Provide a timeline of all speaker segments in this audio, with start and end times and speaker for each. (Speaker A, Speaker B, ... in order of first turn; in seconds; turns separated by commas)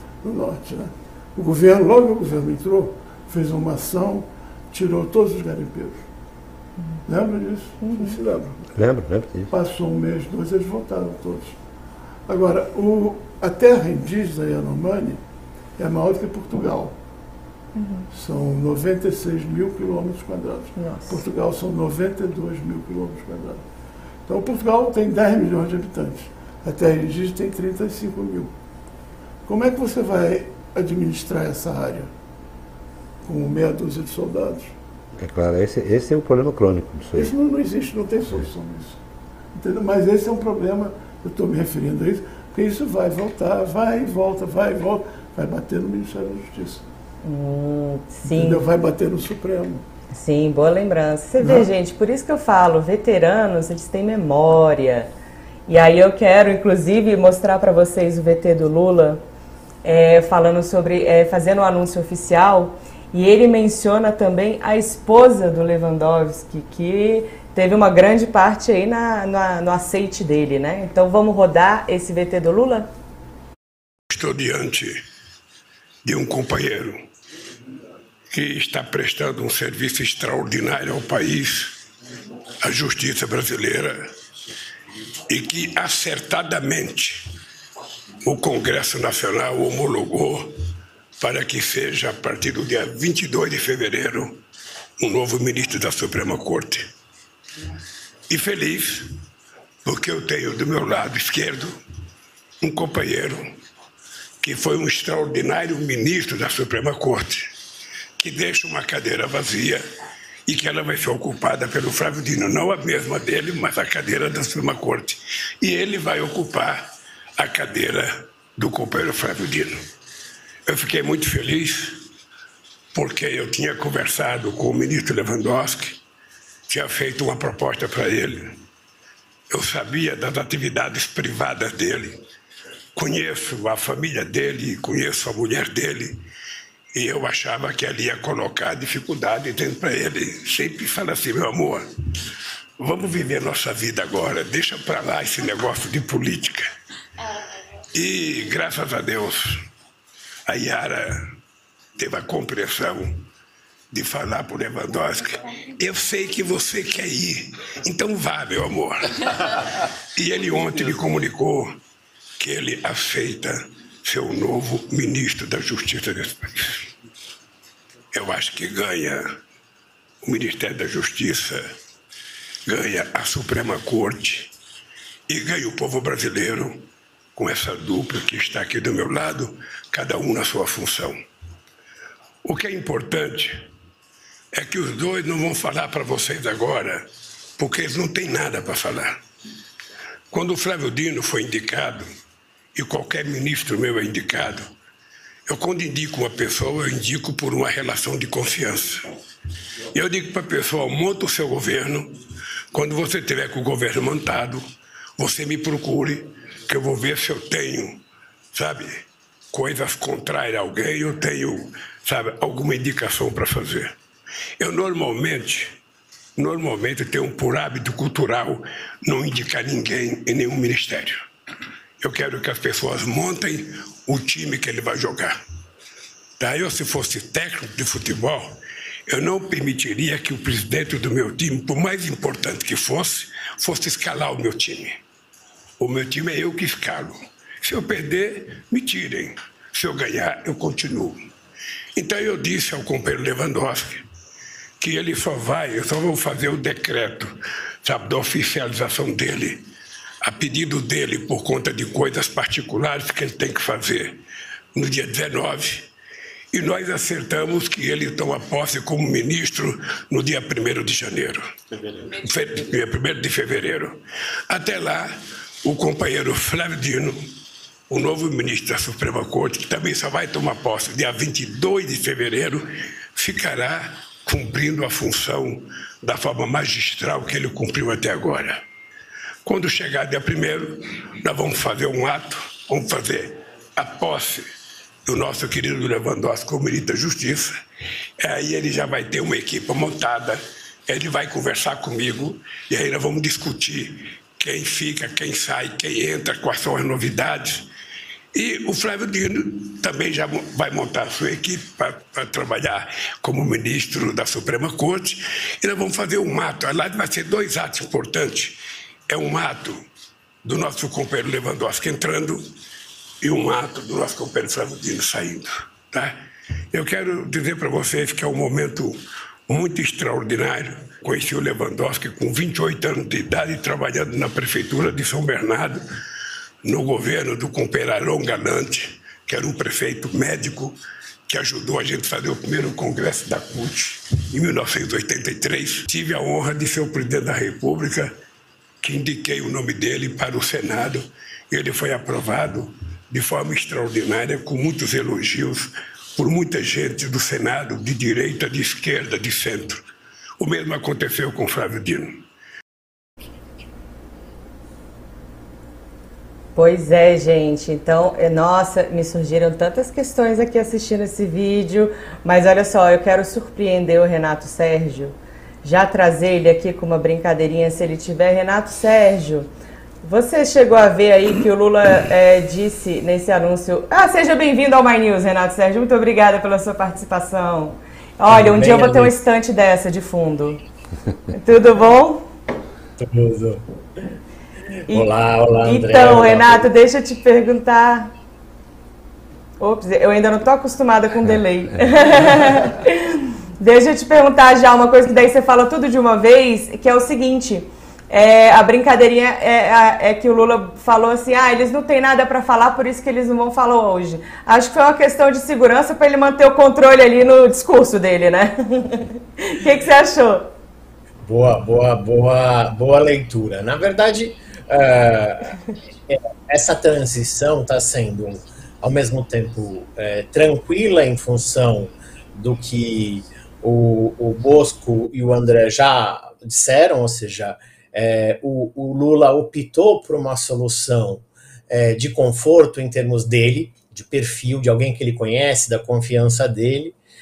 Speaker A: 0.2-6.1, Speaker A: 7.1-8.8, Speaker B: 7.8-8.2, Speaker C: 8.8-9.5, Speaker A: 9.5-11.6, Speaker A: 12.3-15.2, Speaker A: 15.8-16.9, Speaker B: 17.8-18.1, Speaker A: 18.1-23.6, Speaker B: 20.8-21.2, Speaker A: 24.3-28.5, Speaker A: 29.5-32.1, Speaker A: 33.2-34.8, Speaker C: 35.2-37.3, Speaker A: 37.1-39.0, Speaker A: 39.5-46.8, Speaker B: 47.2-48.7, Speaker A: 48.2-49.8, Speaker B: 50.1-55.1, Speaker A: 51.4-51.7, Speaker B: 55.7-59.2, Speaker B: 59.8-72.9, Speaker D: 74.1-75.0, Speaker D: 76.0-77.0, Speaker D: 78.3-81.8, Speaker D: 82.6-84.0, Speaker D: 85.3-87.3, Speaker D: 88.2-90.5, Speaker D: 91.2-94.4, Speaker D: 95.0-96.9, Speaker D: 98.3-99.1, Speaker D: 99.8-101.8, Speaker D: 102.6-103.4, Speaker D: 104.4-107.5, Speaker D: 108.2-109.8, Speaker D: 110.5-119.8, Speaker D: 120.7-122.0, Speaker D: 122.9-126.0, Speaker D: 126.7-128.6, Speaker D: 129.5-132.2, Speaker D: 132.9-136.2, Speaker D: 136.9-141.8, Speaker D: 142.8-146.7, Speaker D: 147.9-149.7, Speaker D: 150.5-151.3, Speaker D: 152.0-153.3, Speaker D: 153.9-159.3, Speaker D: 160.2-161.8, Speaker D: 162.4-166.9, Speaker D: 168.1-169.2, Speaker D: 170.2-171.7, Speaker D: 172.7-174.5, Speaker D: 175.3-176.8, Speaker D: 177.4-181.2, Speaker D: 182.4-183.7, Speaker D: 184.5-187.1, Speaker D: 187.6-189.2, Speaker D: 190.3-192.1, Speaker D: 192.8-194.7, Speaker D: 195.5-199.1, Speaker D: 199.9-202.1, Speaker D: 202.7-204.7, Speaker D: 205.2-208.0, Speaker D: 208.5-214.0, Speaker D: 214.6-215.8, Speaker D: 216.4-221.2, Speaker D: 222.0-225.3, Speaker D: 226.4-235.0, Speaker D: 235.8-241.3, Speaker D: 241.9-244.0, Speaker D: 244.8-249.6, Speaker D: 250.2-254.2, Speaker D: 254.8-255.9, Speaker D: 256.5-264.0, Speaker D: 264.5-267.3, Speaker D: 267.9-278.6, Speaker D: 279.4-284.5, Speaker D: 285.1-287.6, Speaker D: 288.2-297.7, Speaker D: 298.3-309.8, Speaker D: 310.4-312.4, Speaker D: 313.2-316.2, Speaker D: 316.7-325.8, Speaker D: 326.6-338.1, Speaker D: 338.8-349.8, Speaker D: 350.4-352.2, Speaker B: 356.6-369.5, Speaker B: 370.0-380.6, Speaker E: 378.3-379.1, Speaker B: 381.3-382.3, Speaker E: 383.0-383.6, Speaker B: 384.9-388.1, Speaker E: 384.9-386.6, Speaker B: 389.6-410.5, Speaker C: 391.7-392.0, Speaker E: 411.2-415.6, Speaker E: 416.1-437.0